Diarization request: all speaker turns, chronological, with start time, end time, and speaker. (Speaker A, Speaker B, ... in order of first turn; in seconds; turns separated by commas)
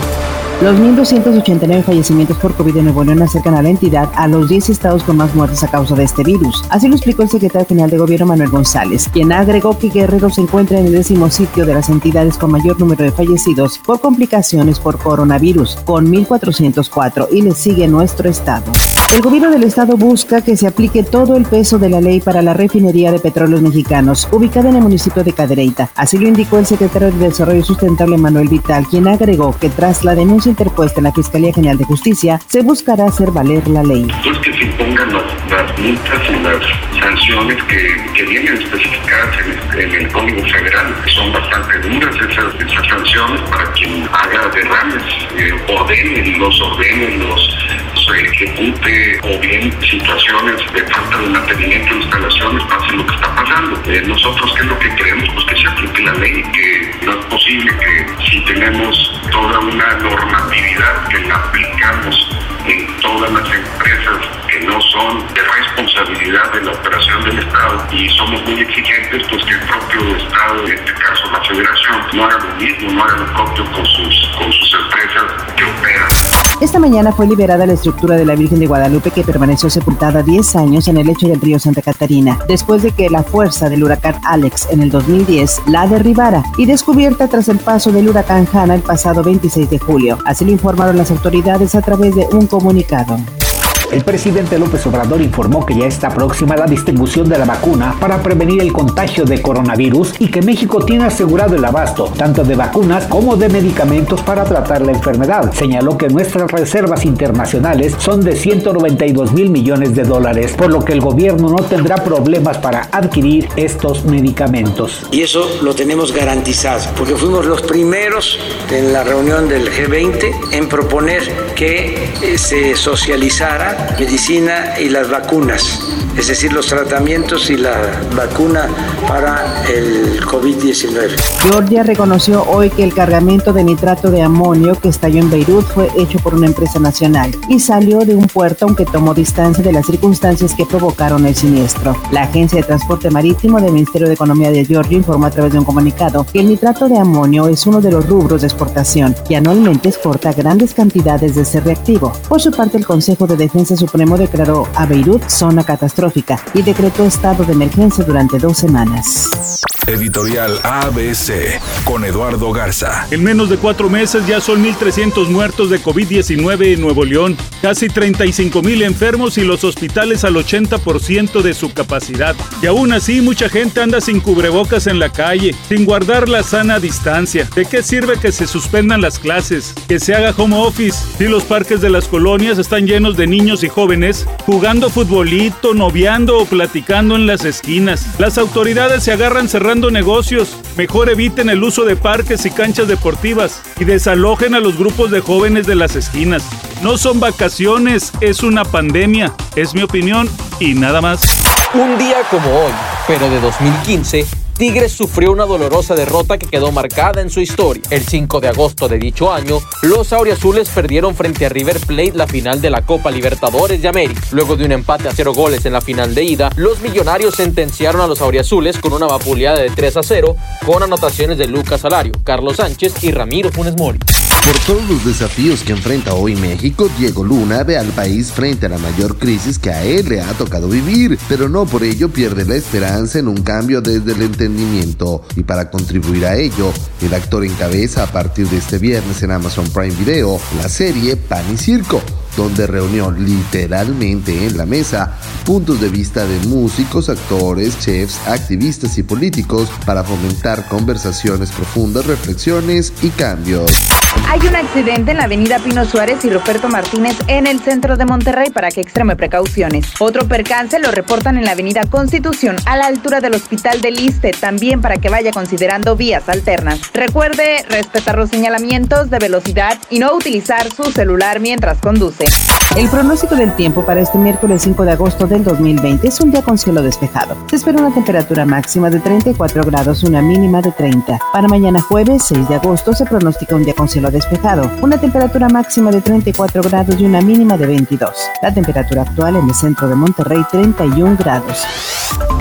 Speaker A: 0.6-34.1, Speaker B: 34.2-76.1, Speaker A: 76.6-93.3, Speaker C: 93.9-115.0, Speaker D: 115.1-131.2, Speaker A: 131.4-159.3, Speaker E: 159.9-163.1, Speaker F: 163.1-201.3, Speaker G: 201.8-224.0, Speaker H: 224.4-253.8, Speaker I: 254.3-272.3, Speaker A: 272.8-291.7